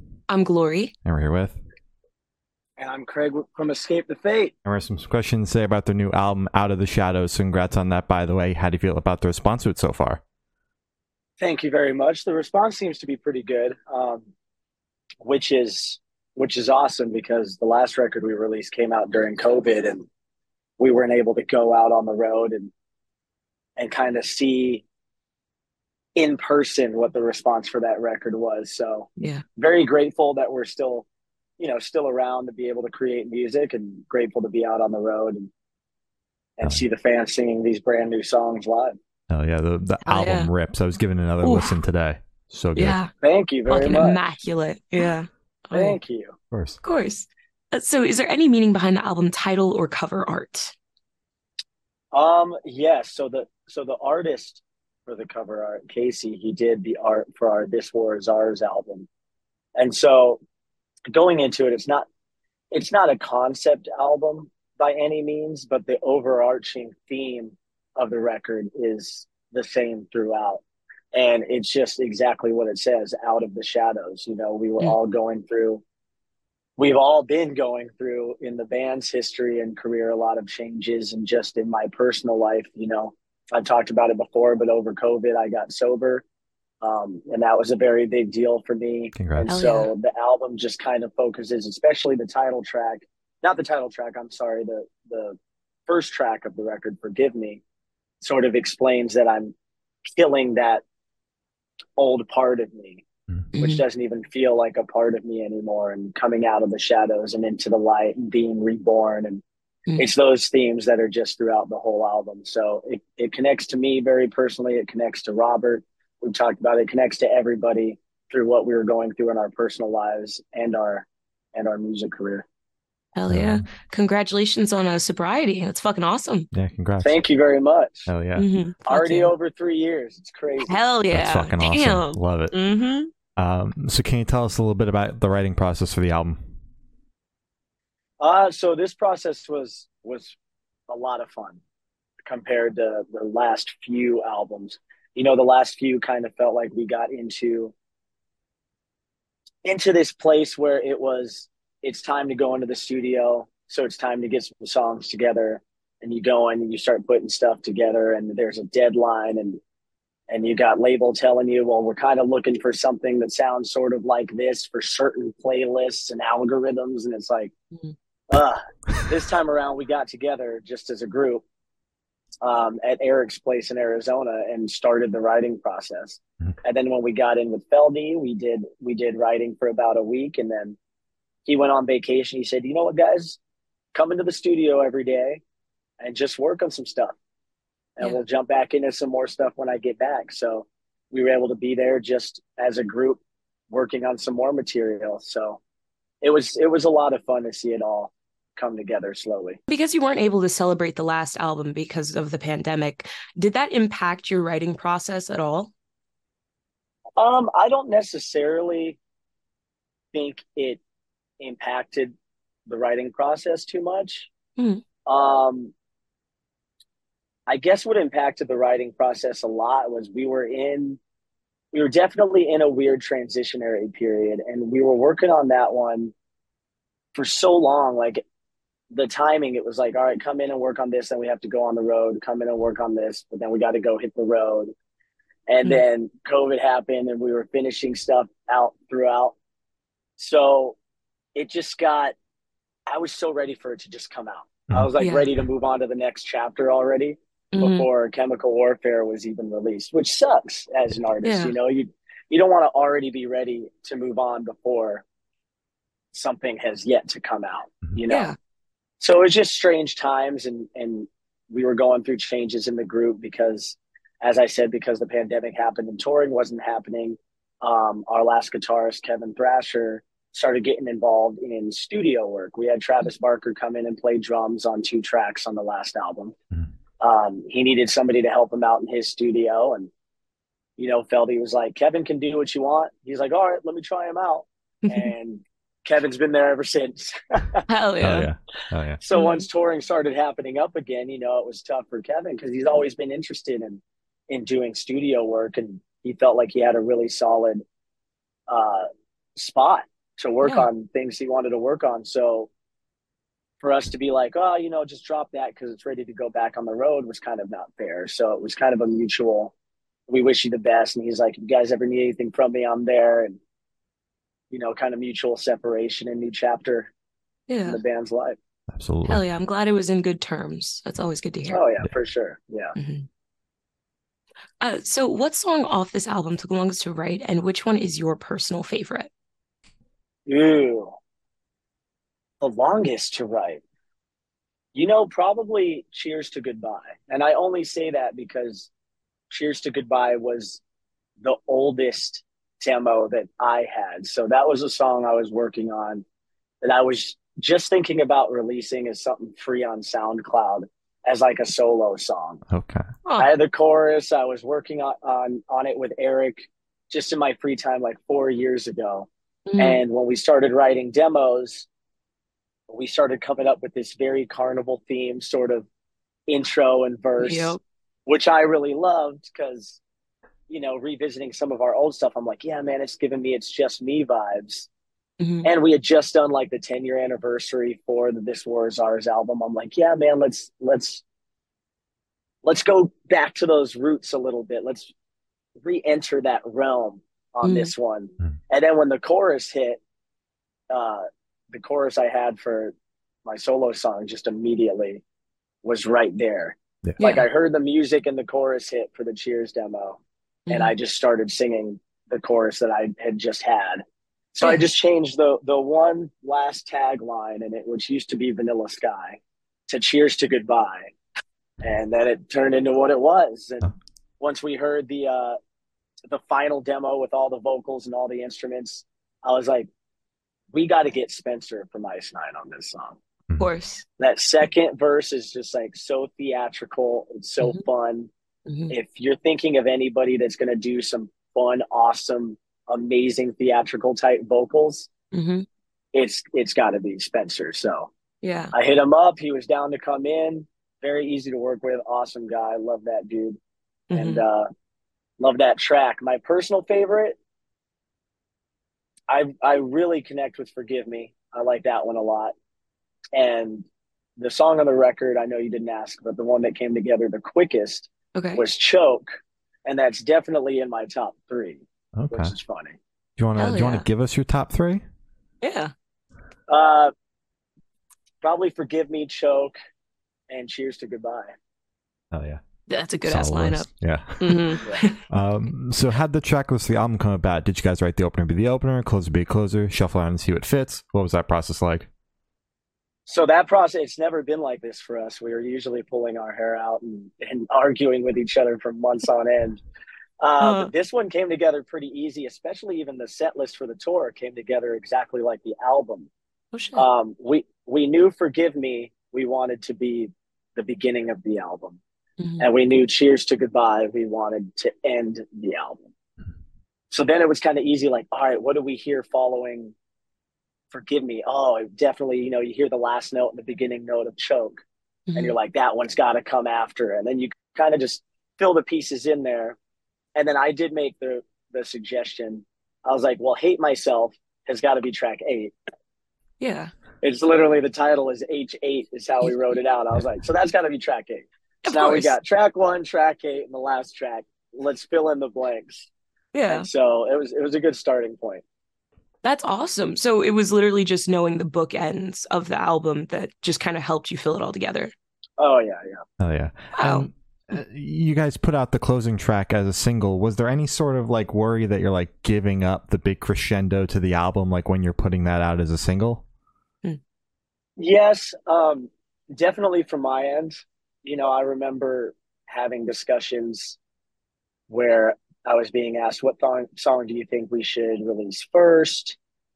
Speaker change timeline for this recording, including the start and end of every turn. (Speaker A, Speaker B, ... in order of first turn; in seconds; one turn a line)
Speaker A: 0.3-0.9
Speaker B: 1.0-1.6
Speaker C: 2.8-4.5
Speaker B: 4.7-10.2
Speaker C: 11.4-14.3
Speaker C: 15.2-20.1
Speaker C: 20.8-22.7
Speaker C: 23.8-24.8
Speaker C: 26.1-31.1
Speaker A: 29.2-29.4
Speaker C: 31.6-35.5
Speaker C: 36.6-38.9
Speaker B: 39.3-43.0
Speaker A: 40.1-40.5
Speaker A: 41.4-41.7
Speaker A: 42.8-43.1
Speaker C: 43.2-44.3
Speaker A: 43.7-46.0
Speaker C: 45.7-46.4
Speaker B: 46.5-46.8
Speaker A: 46.8-50.7
Speaker C: 52.1-59.1
Speaker C: 59.8-60.4
Speaker C: 61.1-62.1
Speaker C: 62.7-70.6
Speaker C: 71.1-75.8
Speaker C: 76.8-86.2
Speaker C: 86.8-95.4
Speaker B: 89.2-89.5
Speaker A: 89.5-89.9
Speaker C: 95.9-97.6
Speaker C: 98.2-99.5
Speaker C: 100.1-100.8
Speaker C: 102.0-103.0
Speaker A: 103.5-103.8
Speaker C: 103.6-109.4
Speaker C: 110.0-122.4
Speaker A: 123.1-126.5
Speaker B: 123.3-123.6
Speaker B: 126.5-127.2
Speaker C: 127.0-128.1
Speaker B: 128.1-128.4
Speaker A: 128.3-129.3
Speaker C: 128.8-130.8
Speaker A: 130.7-133.1
Speaker B: 131.1-132.5
Speaker B: 133.4-136.5
Speaker C: 138.2-140.3
Speaker C: 140.9-141.6
Speaker C: 142.2-147.7
Speaker C: 149.6-159.6
Speaker C: 160.3-167.5
Speaker C: 168.3-171.4
Speaker C: 172.4-180.8
Speaker C: 181.4-183.4
Speaker C: 183.9-185.4
Speaker C: 186.0-187.2
Speaker C: 188.0-193.2
Speaker C: 193.7-195.6
Speaker C: 196.2-199.6
Speaker A: 199.7-205.7
Speaker C: 207.2-209.0
Speaker C: 210.1-210.8
Speaker C: 211.4-212.1
Speaker C: 212.7-214.3
Speaker C: 215.1-215.7
Speaker C: 217.5-221.0
Speaker C: 221.7-226.1
Speaker C: 227.1-228.2
Speaker C: 228.9-234.7
Speaker C: 235.5-239.3
Speaker C: 240.2-240.8
Speaker C: 241.3-242.1
Speaker C: 242.9-255.0
Speaker A: 245.0-245.3
Speaker A: 247.5-247.9
Speaker A: 251.2-251.5
Speaker C: 256.1-258.3
Speaker A: 258.1-258.4
Speaker C: 259.0-276.3
Speaker C: 277.0-279.9
Speaker C: 280.8-287.6
Speaker A: 284.8-285.1
Speaker A: 287.7-288.3
Speaker B: 288.0-289.0
Speaker C: 289.0-297.6
Speaker A: 289.1-289.5
Speaker C: 298.5-302.5
Speaker A: 300.4-300.7
Speaker C: 303.6-309.5
Speaker C: 310.1-313.4
Speaker C: 314.5-316.9
Speaker A: 317.5-317.8
Speaker C: 317.6-318.4
Speaker B: 318.7-319.2
Speaker A: 319.1-321.6
Speaker C: 321.5-322.7
Speaker A: 322.8-323.1
Speaker A: 324.6-329.1
Speaker C: 330.3-330.9
Speaker C: 332.4-333.6
Speaker C: 334.7-338.7
Speaker C: 339.3-340.6
Speaker C: 341.2-346.0
Speaker C: 346.6-352.4
Speaker B: 352.5-352.8
Speaker A: 353.0-353.3
Speaker C: 353.2-361.7
Speaker A: 359.5-359.8
Speaker C: 362.7-365.6
Speaker C: 366.3-369.8
Speaker A: 367.2-367.6
Speaker C: 370.5-374.7
Speaker A: 375.2-375.5
Speaker C: 375.4-381.0
Speaker C: 382.4-384.9
Speaker C: 385.6-389.8
Speaker A: 387.4-387.7
Speaker C: 390.7-392.7
Speaker C: 393.2-395.0
Speaker C: 395.6-400.0
Speaker A: 397.0-397.3
Speaker A: 400.5-400.7
Speaker C: 400.5-403.8
Speaker C: 404.3-410.9
Speaker C: 411.6-415.4
Speaker C: 416.1-419.7
Speaker C: 420.5-423.0
Speaker A: 423.4-423.9
Speaker C: 424.0-428.1
Speaker A: 428.5-428.7
Speaker C: 428.7-434.9
Speaker A: 435.1-435.4
Speaker C: 435.9-437.9
Speaker A: 438.2-438.5
Speaker C: 438.5-443.4
Speaker A: 443.9-444.2
Speaker C: 443.9-444.5
Speaker C: 445.2-447.2
Speaker C: 449.1-452.3
Speaker C: 453.1-453.7
Speaker C: 454.2-459.1
Speaker A: 458.1-458.4
Speaker C: 459.6-462.8
Speaker B: 461.9-462.3
Speaker B: 463.2-464.8
Speaker A: 463.4-463.9
Speaker A: 465.4-465.7
Speaker C: 466.5-466.9
Speaker C: 468.2-469.5
Speaker C: 470.3-471.3
Speaker B: 472.1-472.4
Speaker A: 472.7-475.0
Speaker B: 473.0-474.6
Speaker B: 475.1-481.9
Speaker C: 483.1-489.6
Speaker C: 490.2-496.1
Speaker A: 490.4-490.7
Speaker A: 496.5-496.9
Speaker C: 496.8-501.8
Speaker A: 502.2-502.4
Speaker C: 502.4-505.8
Speaker C: 506.9-509.7
Speaker C: 510.7-514.6
Speaker A: 515.1-515.4
Speaker C: 515.1-519.6
Speaker C: 520.1-525.5
Speaker A: 526.4-526.7
Speaker C: 527.0-535.9
Speaker A: 531.6-532.1
Speaker A: 536.3-536.7
Speaker C: 536.5-538.4
Speaker A: 539.2-544.9
Speaker C: 545.4-546.0
Speaker B: 546.2-556.2
Speaker A: 546.8-547.1
Speaker C: 557.8-563.8
Speaker C: 564.7-569.2